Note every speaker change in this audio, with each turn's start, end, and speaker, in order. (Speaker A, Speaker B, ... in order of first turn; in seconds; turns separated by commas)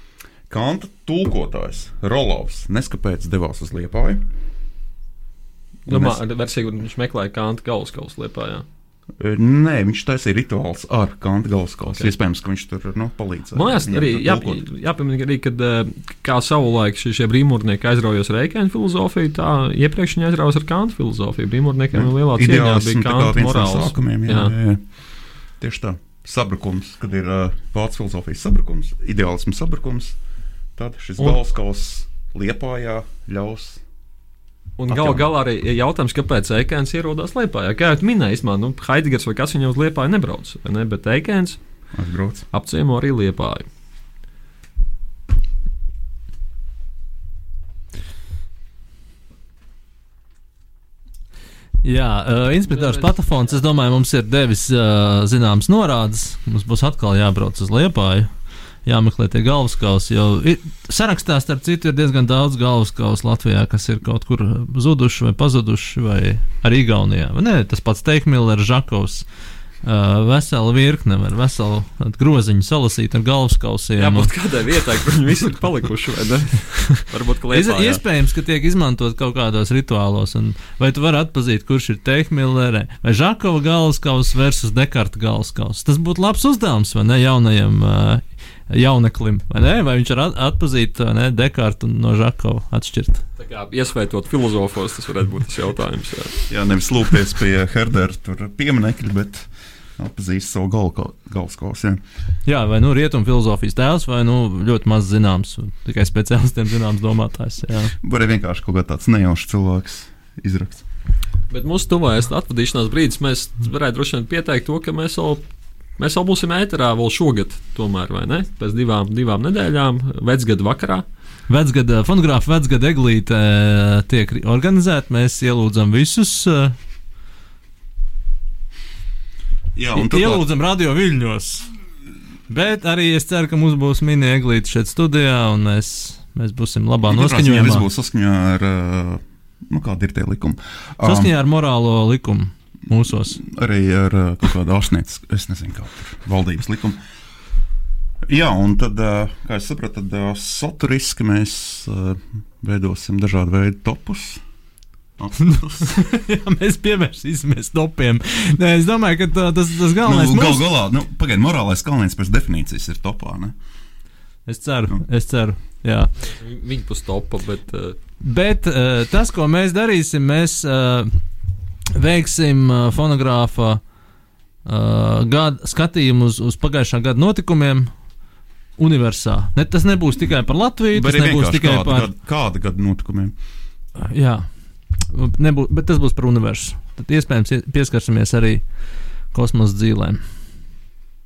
Speaker A: 0.5-4.2, Speaker A: 5.9-6.2, Speaker B: 5.9-8.6, Speaker A: 9.2-14.6, Speaker B: 13.6-24.5, Speaker A: 21.9-24.9, Speaker A: 25.6-30.2, Speaker A: 30.8-33.8, Speaker B: 34.8-41.6, Speaker A: 34.9-35.3, Speaker A: 41.9-42.5, Speaker B: 42.5-43.7, Speaker C: 51.8-58.3, Speaker C: 58.8-69.2, Speaker C: 69.8-74.3, Speaker B: 74.0-78.0, Speaker C: 77.5-93.2, Speaker B: 93.4-96.4, Speaker A: 96.5-102.0, Speaker C: 102.4-107.9, Speaker A: 108.0-110.8, Speaker B: 111.5-115.4, Speaker B: 116.0-121.0, Speaker C: 121.5-126.8, Speaker A: 129.7-130.4, Speaker C: 129.9-131.7, Speaker C: 132.5-137.8, Speaker A: 137.0-141.3, Speaker C: 141.0-143.4, Speaker A: 143.4-147.0, Speaker A: 148.3-154.4, Speaker A: 155.2-155.9, Speaker C: 155.4-160.6, Speaker A: 160.0-163.5, Speaker C: 164.5-166.1, Speaker B: 166.4-168.0, Speaker C: 168.2-171.2, Speaker C: 171.9-173.8, Speaker C: 174.7-178.1, Speaker C: 178.8-182.1, Speaker A: 180.9-183.3, Speaker C: 184.0-188.7, Speaker C: 189.3-190.2